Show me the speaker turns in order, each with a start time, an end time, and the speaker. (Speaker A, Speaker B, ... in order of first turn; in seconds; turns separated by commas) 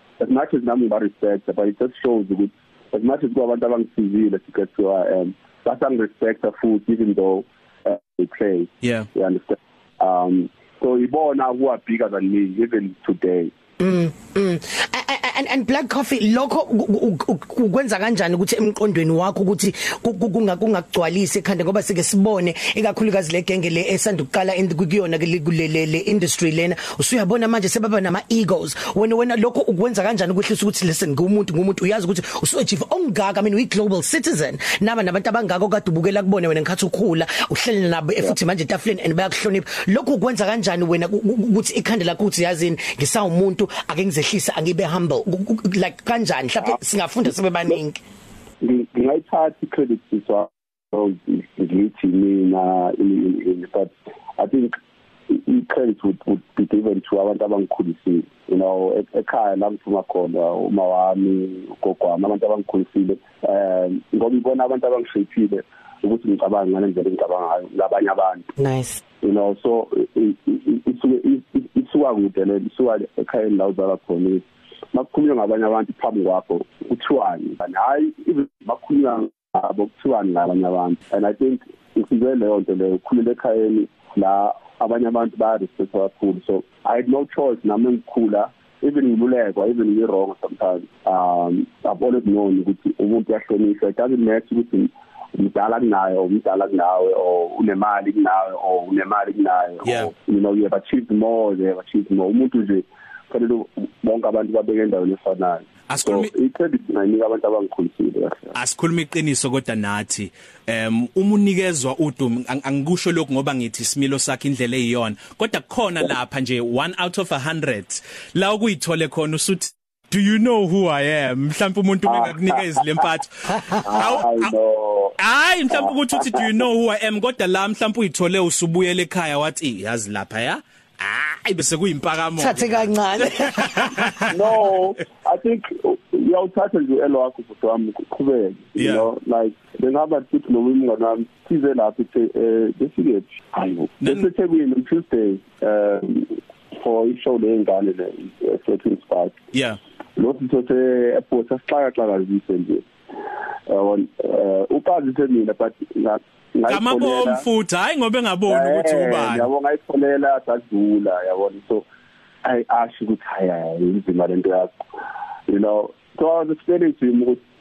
Speaker A: 0.2-13.5, Speaker B: 13.8-48.0, Speaker A: 48.6-54.7, Speaker A: 55.3-68.5, Speaker B: 68.6-69.0, Speaker A: 69.2-108.5, Speaker C: 99.8-100.1, Speaker C: 105.9-106.3, Speaker C: 108.5-124.5, Speaker A: 122.1-122.7, Speaker A: 123.8-125.2, Speaker C: 125.2-134.3, Speaker A: 125.7-126.3, Speaker B: 132.4-134.1, Speaker A: 134.3-149.3, Speaker C: 138.8-139.1, Speaker C: 144.0-144.3, Speaker C: 149.5-149.8, Speaker A: 150.2-152.8, Speaker A: 153.7-157.4, Speaker C: 156.7-159.5, Speaker A: 158.5-161.9, Speaker A: 162.4-164.7, Speaker A: 165.5-167.4